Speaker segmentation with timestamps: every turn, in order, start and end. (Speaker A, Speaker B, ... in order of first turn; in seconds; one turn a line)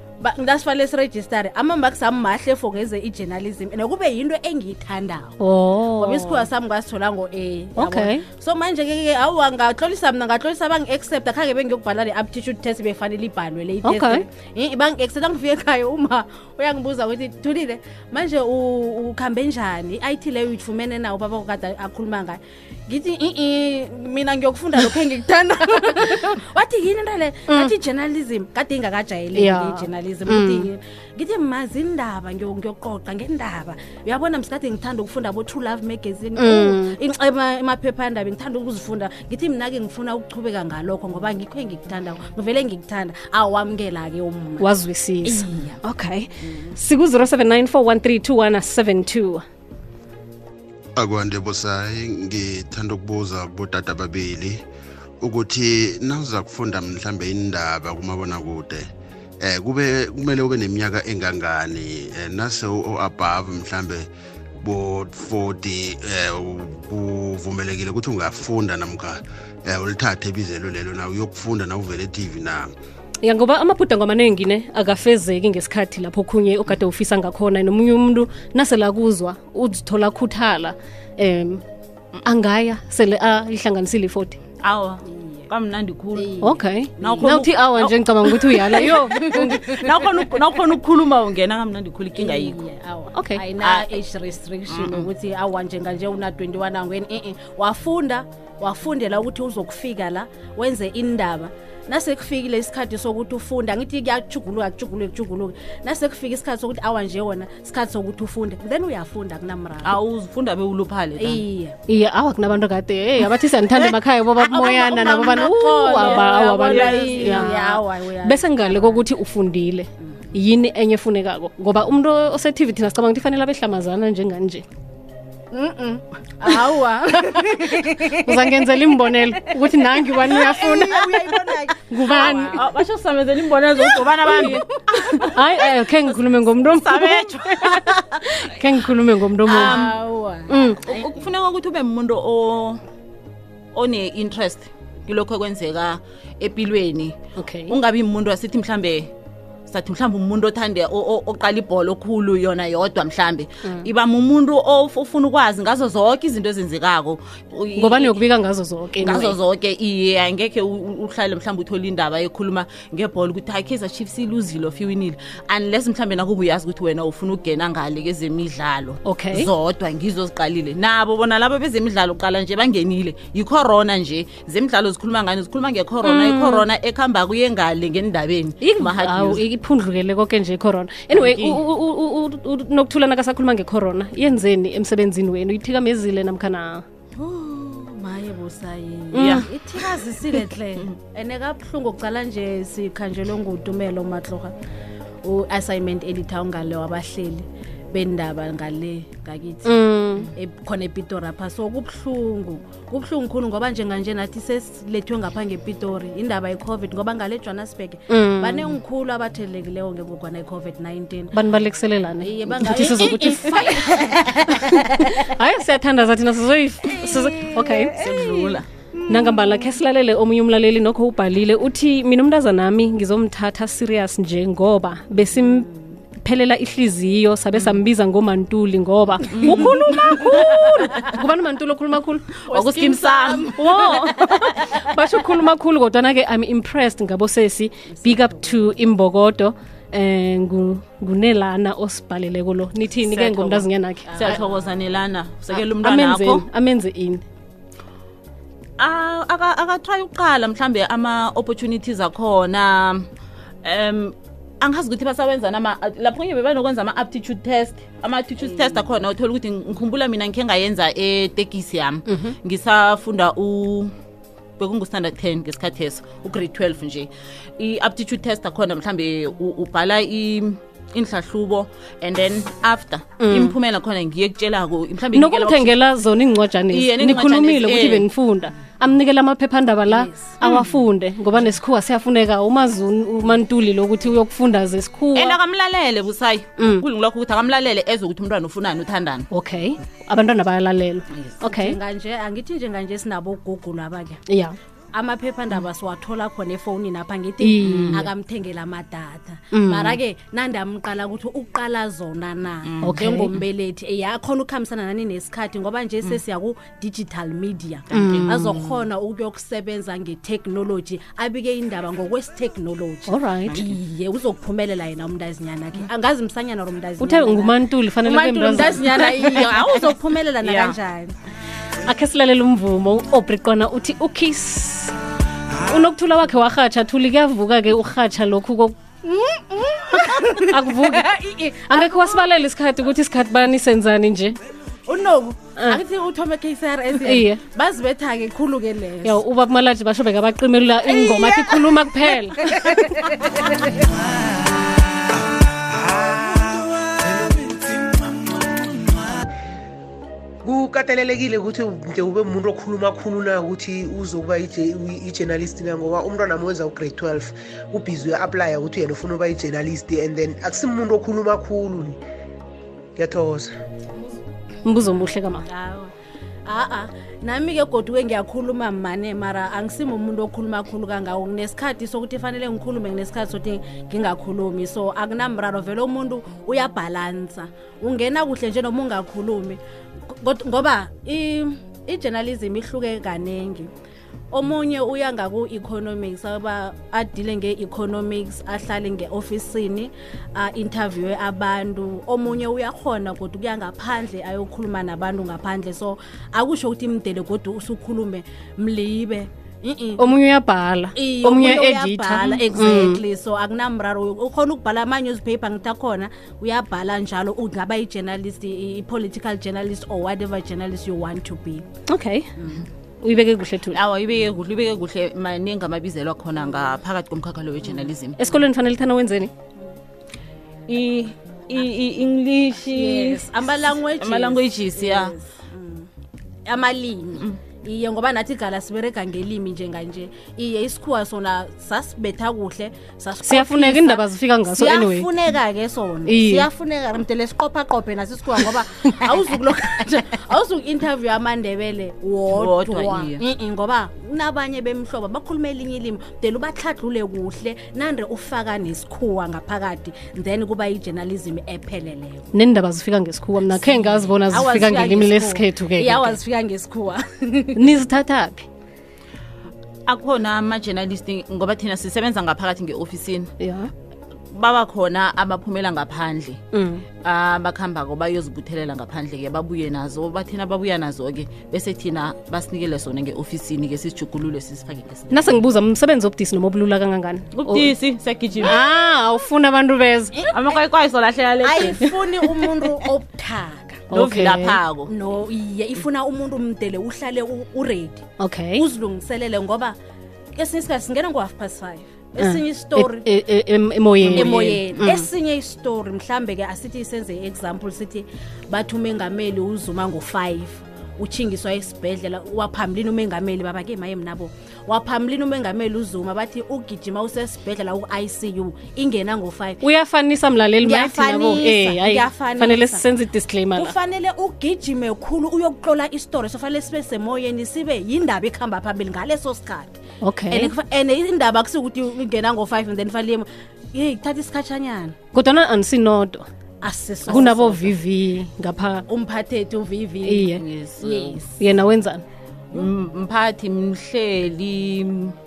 Speaker A: 0.2-5.3
Speaker B: 5.4-6.5
Speaker A: 5.9-44.6
Speaker B: 7.8-8.2
Speaker B: 13.8-14.2
Speaker B: 29.4-30.7
Speaker B: 36.4-37.0
Speaker B: 44.6-49.4
Speaker A: 45.2-45.8
Speaker A: 46.4-46.7
Speaker C: 51.0-54.6
Speaker C: 55.2-58.8
Speaker C: 59.4-64.1
Speaker C: 64.6-72.7
Speaker B: 73.2-81.6
Speaker B: 82.2-84.4
Speaker D: 84.6-86.4
Speaker A: 85.1-85.4
Speaker A: 86.2-87.3
Speaker B: 86.4-89.6
Speaker D: 87.0-92.6
Speaker A: 88.8-90.4
Speaker A: 92.2-110.0
Speaker B: 93.1-93.4
Speaker D: 93.6-94.0
Speaker D: 94.7-95.1
Speaker D: 109.8-111.4
Speaker A: 111.2-111.8
Speaker B: 111.9-124.6
Speaker A: 114.4-119.0
Speaker D: 116.0-117.5
Speaker A: 125.5-128.6
Speaker B: 128.2-131.2
Speaker A: 129.8-132.7
Speaker B: 131.9-132.6
Speaker D: 132.5-135.3
Speaker A: 133.8-135.3
Speaker B: 134.3-134.6
Speaker B: 135.2-139.8
Speaker D: 136.8-138.2
Speaker D: 139.5-140.0
Speaker A: 139.5-141.1
Speaker B: 140.5-140.8
Speaker D: 140.8-142.8
Speaker D: 143.7-147.2
Speaker B: 147.4-147.7
Speaker D: 147.7-149.1
Speaker D: 149.7-158.2
Speaker B: 157.7-159.3
Speaker D: 159.0-179.4
Speaker B: 169.0-169.5
Speaker B: 176.0-176.7
Speaker B: 178.6-186.8
Speaker D: 181.1-181.6
Speaker A: 187.2-194.5
Speaker B: 189.1-189.4
Speaker D: 189.2-189.5
Speaker A: 195.2-199.7
Speaker B: 199.6-200.3
Speaker A: 200.3-211.3
Speaker B: 208.1-208.8
Speaker B: 211.3-213.9
Speaker A: 212.2-215.3
Speaker B: 214.5-217.9
Speaker A: 216.9-219.6
Speaker D: 217.9-218.7
Speaker B: 219.1-225.7
Speaker A: 225.3-225.8
Speaker B: 226.2-232.3
Speaker D: 229.3-229.8
Speaker A: 229.3-231.1
Speaker A: 232.5-234.8
Speaker D: 232.5-233.7
Speaker B: 233.5-244.3
Speaker A: 238.0-238.4
Speaker D: 243.1-243.6
Speaker A: 244.1-244.7
Speaker D: 244.2-246.4
Speaker B: 245.8-247.2
Speaker D: 248.8-253.1
Speaker D: 253.6-263.9
Speaker B: 262.1-262.3
Speaker D: 264.6-275.7
Speaker B: 273.2-273.6
Speaker B: 275.1-285.4
Speaker D: 276.7-278.1
Speaker A: 279.9-280.4
Speaker D: 285.1-289.3
Speaker B: 286.6-286.8
Speaker B: 289.3-291.8
Speaker A: 291.4-294.2
Speaker B: 294.3-294.6
Speaker A: 294.9-321.1
Speaker B: 297.4-298.1
Speaker D: 297.6-298.0
Speaker B: 299.5-300.0
Speaker D: 302.6-303.0
Speaker B: 302.8-303.3
Speaker D: 307.9-308.6
Speaker B: 307.9-308.6
Speaker B: 313.1-313.6
Speaker D: 313.5-313.8
Speaker B: 317.0-318.9
Speaker D: 318.7-320.8
Speaker B: 321.8-324.9
Speaker B: 325.6-328.7
Speaker A: 329.0-332.2
Speaker B: 330.1-331.1
Speaker B: 331.7-334.4
Speaker A: 334.9-339.2
Speaker B: 337.0-337.4
Speaker B: 339.0-342.8
Speaker A: 340.9-341.7
Speaker A: 342.4-343.8
Speaker E: 345.7-349.2
Speaker E: 350.4-362.0
Speaker E: 363.0-363.5
Speaker B: 364.6-365.4
Speaker A: 365.3-365.9
Speaker A: 366.4-383.7
Speaker A: 384.3-400.1
Speaker B: 400.0-403.0
Speaker A: 400.9-411.6
Speaker B: 411.9-412.3
Speaker A: 412.4-412.6
Speaker B: 413.0-413.8
Speaker D: 413.7-418.2
Speaker B: 418.2-419.3
Speaker D: 420.7-423.5
Speaker A: 422.7-425.9
Speaker D: 424.0-425.1
Speaker A: 426.4-452.3
Speaker B: 433.2-435.1
Speaker B: 436.1-436.5
Speaker D: 442.3-443.2
Speaker B: 452.3-456.2
Speaker A: 453.5-457.6
Speaker B: 457.5-458.4
Speaker D: 459.9-463.3
Speaker B: 463.4-463.7
Speaker D: 464.3-466.4
Speaker B: 466.5-466.8
Speaker D: 467.0-475.4
Speaker B: 475.1-477.7
Speaker D: 477.3-478.6
Speaker B: 478.4-480.1
Speaker A: 480.1-480.6
Speaker D: 480.3-482.8
Speaker A: 481.4-483.8
Speaker B: 483.9-484.6
Speaker D: 483.9-484.9
Speaker A: 484.9-488.0
Speaker B: 488.2-488.6
Speaker A: 488.6-489.8
Speaker A: 490.4-493.1
Speaker B: 492.2-495.1
Speaker D: 494.0-494.4
Speaker A: 494.0-509.6
Speaker B: 509.6-513.7
Speaker A: 510.6-512.8
Speaker A: 513.5-519.8
Speaker B: 520.0-520.5
Speaker A: 520.3-525.0
Speaker B: 525.1-526.2
Speaker A: 526.6-527.7
Speaker B: 527.1-528.8
Speaker A: 528.9-531.4
Speaker B: 530.0-530.4
Speaker D: 530.4-531.2
Speaker B: 531.4-532.0
Speaker D: 532.5-535.1